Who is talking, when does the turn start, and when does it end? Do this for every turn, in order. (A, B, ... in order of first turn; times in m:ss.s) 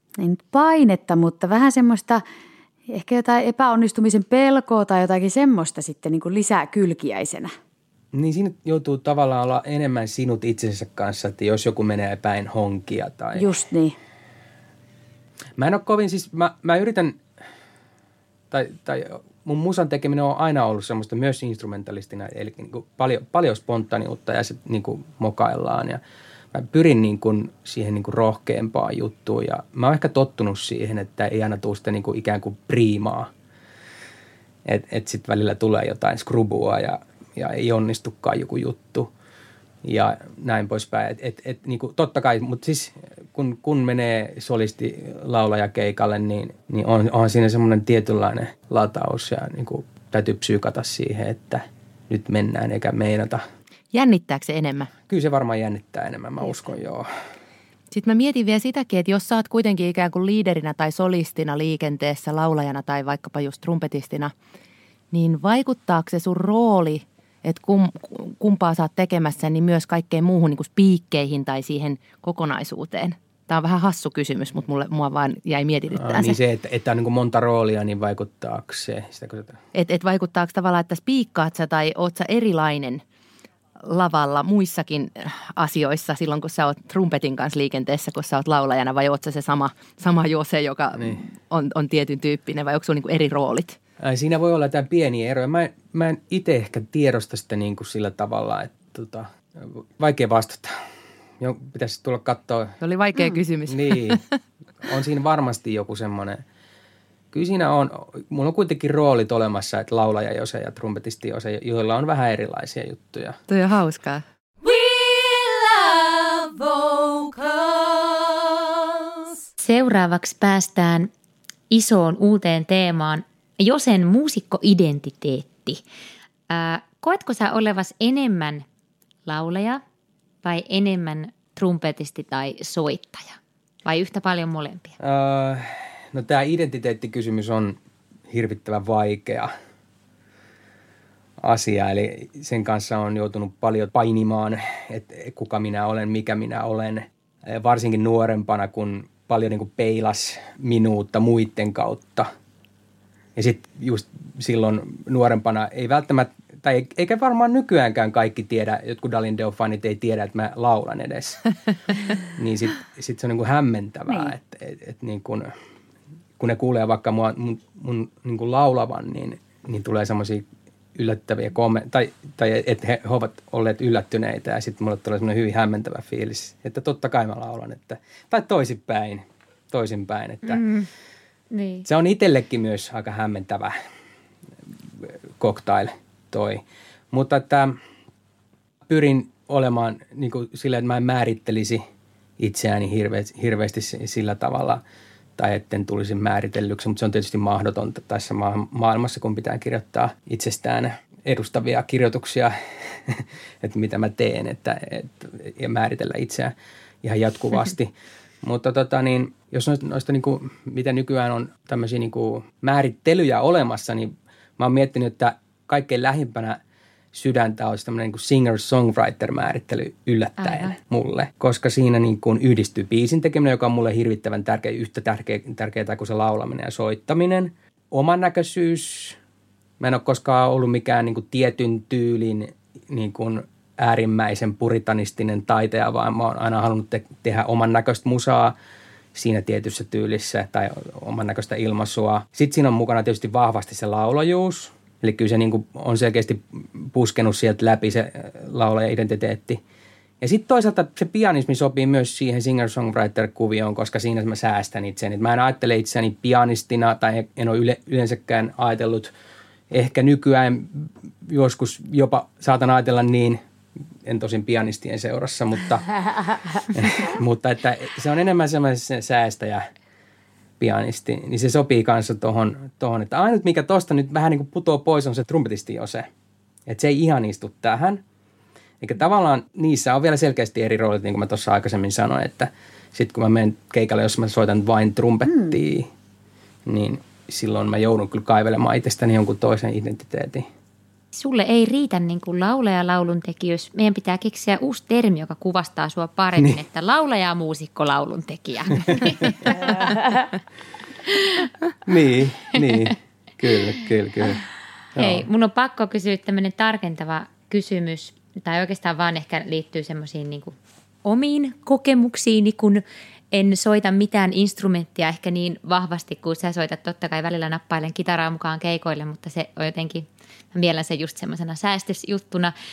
0:00.2-0:02.2 A
0:02.9-0:07.5 A
0:08.1-0:13.6 B
0:13.4-0:14.0 A
0:15.6-0:17.2 B
0:18.5-0:26.0 B
0:26.5-0:33.3 B
0:34.6-0:39.1 B
0:39.8-0:53.4 B
0:53.9-0:54.9 C
0:55.1-0:57.1 B
0:57.9-1:04.3 C
1:05.1-1:16.4 C
1:15.9-1:19.6 B
1:19.7-1:23.0 C
1:23.8-1:33.8 C
1:30.9-1:31.2 B
1:34.0-1:40.8 B
1:41.4-1:42.8 B
1:42.8-1:44.3 C
1:43.7-1:44.2 B
1:44.8-1:46.4 B
1:47.3-1:53.4 B
1:53.5-1:54.2 C
1:54.6-1:59.4 D
1:59.6-2:01.1 E
2:01.7-2:05.8 E
2:06.5-2:08.6 E
2:09.2-2:09.8 E
2:10.4-2:15.0 E
2:15.0-2:17.8 B
2:18.3-2:19.5 B
2:21.4-2:32.3 B
2:33.4-2:41.4 B
2:42.2-2:45.5 B
2:46.4-3:00.6 B
3:00.5-3:00.9 E
3:01.5-3:01.8 E
3:01.8-3:03.7 B
3:05.0-3:07.8 B
3:08.9-3:11.8 B
3:12.4-3:14.8 B
3:15.4-3:27.9 B
3:28.4-3:36.6 B
3:37.1-3:49.2 B
3:40.4-3:40.7 E
3:49.8-3:58.6 B
3:59.1-4:09.6 B
4:10.2-4:19.1 B
4:19.7-4:23.4 B
4:24.0-4:25.9 B
4:26.7-4:29.6 B
4:30.6-4:36.1 B
4:36.7-4:38.0 B
4:38.8-4:45.9 B
4:45.3-4:45.6 A
4:46.6-4:50.5 B
4:51.1-5:00.2 E
4:56.4-4:56.6 B
4:58.9-4:59.1 B
4:59.7-5:00.1 A
5:01.1-5:01.5 E
5:01.8-5:04.4 B
5:04.9-5:05.3 B
5:05.0-5:22.5 E